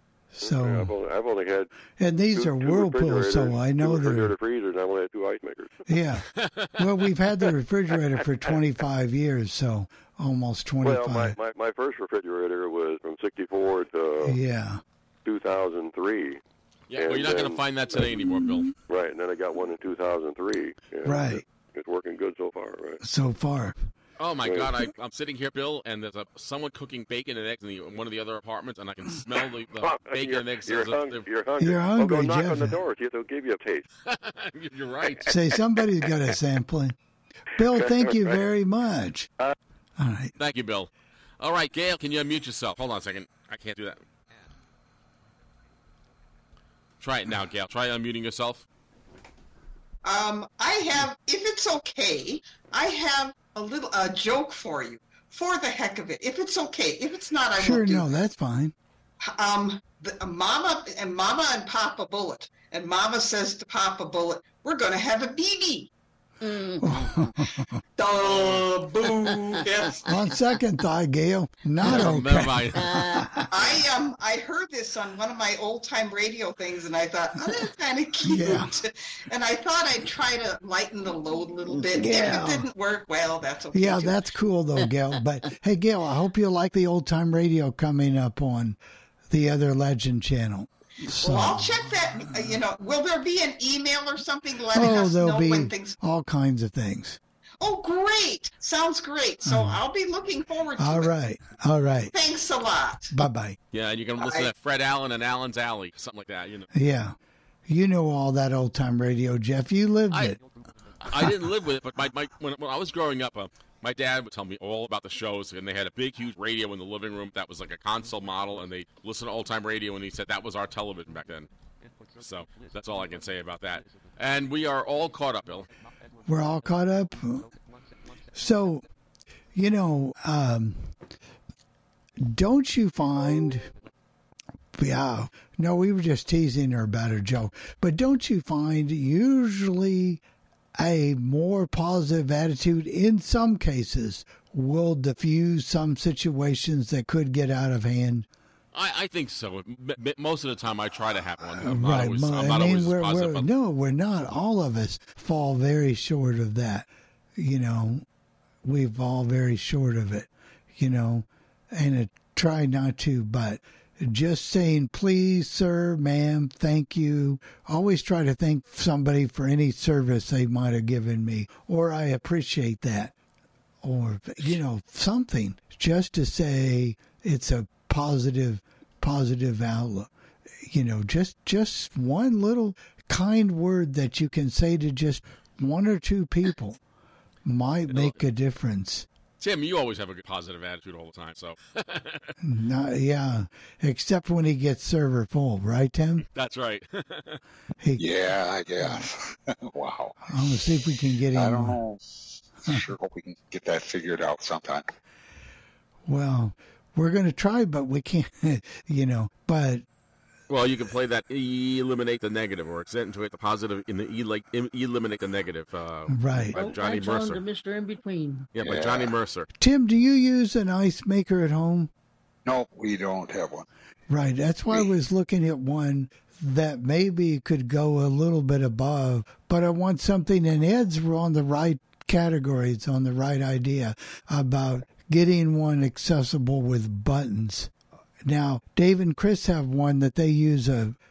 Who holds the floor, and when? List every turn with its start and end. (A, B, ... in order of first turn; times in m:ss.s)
0:00.4-0:00.9 A
0:00.4-0:01.7 B
0:02.0-0:04.3 A
0:02.3-0:05.9 B
0:05.9-0:06.3 A
0:06.4-0:06.7 C
0:06.8-0:11.4 A
0:10.8-0:14.4 B
0:14.2-0:14.8 A
0:15.2-0:16.4 B
0:16.9-0:18.7 C
0:17.0-0:17.6 B
0:18.9-0:23.0 B
0:21.0-0:21.4 A
0:23.0-0:23.8 A
0:24.2-0:31.3 C
0:24.4-0:24.7 B
0:29.8-0:33.9 B
0:31.6-0:32.8 A
0:34.1-0:35.3 C
0:35.3-0:37.0 A
0:37.6-0:39.3 A
0:37.6-0:38.4 B
0:40.0-0:40.3 A
0:40.4-0:44.0 C
0:47.0-0:48.6 C
0:50.0-0:58.1 D
0:57.6-0:58.8 A
0:59.3-1:05.9 D
1:06.4-1:07.3 E
1:06.8-1:07.8 A
1:08.0-1:10.0 D
1:09.1-1:09.9 E
1:10.0-1:13.5 A
1:11.9-1:12.8 C
1:12.8-1:13.3 E
1:13.5-1:24.2 D
1:17.4-1:17.7 E
1:18.3-1:18.7 A
1:21.7-1:22.4 E
1:22.0-1:22.7 A
1:23.7-1:28.8 A
1:24.8-1:25.2 E
1:29.3-1:31.7 A
1:31.2-1:36.0 D
1:34.7-1:37.2 A
1:37.6-1:41.1 D
1:39.5-1:39.8 A
1:40.8-1:42.1 A
1:42.1-1:43.1 D
1:43.1-1:43.6 A
1:43.7-1:46.7 C
1:44.2-1:44.5 D
1:46.7-1:47.2 A
1:47.7-1:50.4 A
1:51.0-2:01.5 C
2:02.2-2:05.7 C
2:06.2-2:07.5 A
2:08.3-2:08.8 A
2:09.5-2:10.9 A
2:12.2-2:13.7 A
2:14.8-2:20.2 A
2:20.8-2:28.3 A
2:28.7-2:33.5 C
2:31.6-2:38.0 A
2:38.6-2:53.1 A
2:53.8-3:00.1 A
3:00.7-3:06.8 A
3:07.4-3:09.1 A
3:07.9-3:08.2 C
3:09.4-3:12.3 C
3:12.4-3:16.2 A
3:16.3-3:17.4 C
3:18.0-3:20.3 F
3:18.8-3:19.1 A
3:20.3-3:21.8 A
3:21.3-3:24.8 F
3:26.1-3:29.8 A
3:30.5-3:37.4 C
3:36.1-3:36.6 A
3:36.5-3:38.5 E
3:38.6-3:39.5 C
3:38.6-3:39.2 F
3:39.6-3:41.9 A
3:42.5-3:43.7 F
3:44.1-3:57.7 A
3:58.2-4:01.0 A